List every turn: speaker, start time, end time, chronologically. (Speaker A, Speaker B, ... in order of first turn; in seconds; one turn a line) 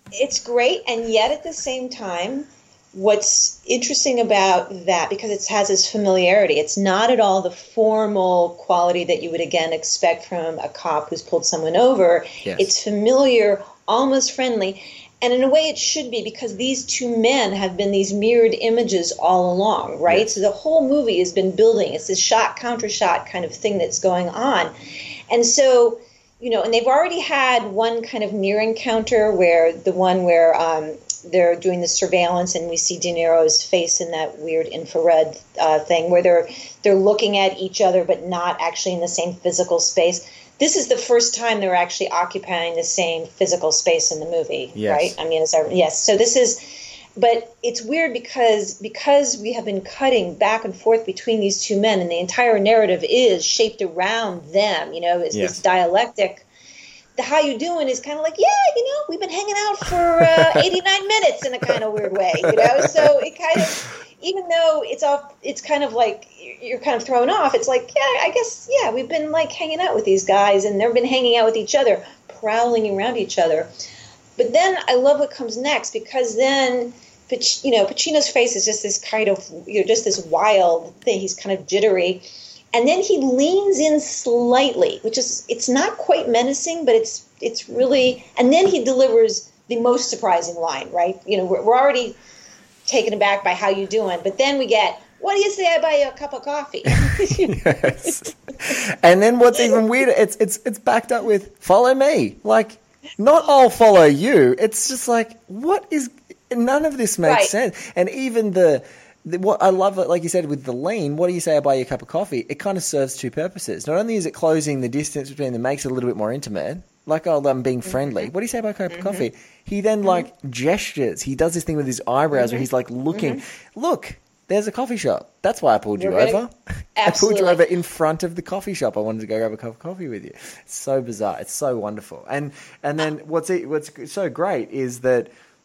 Speaker A: 0.1-24.7
Speaker B: 12.4-12.7
Speaker A: 25.3-56.5
Speaker B: 44.8-45.1
Speaker B: 55.3-55.6
Speaker A: 57.2-73.7
Speaker B: 60.2-60.6
Speaker B: 62.4-63.1
Speaker A: 74.4-92.2
Speaker A: 92.9-98.1
Speaker B: 96.9-135.3
Speaker A: 107.2-107.5
Speaker A: 117.9-118.3
Speaker A: 118.9-119.3
Speaker A: 122.3-123.4
Speaker A: 126.0-126.4
Speaker A: 127.0-127.6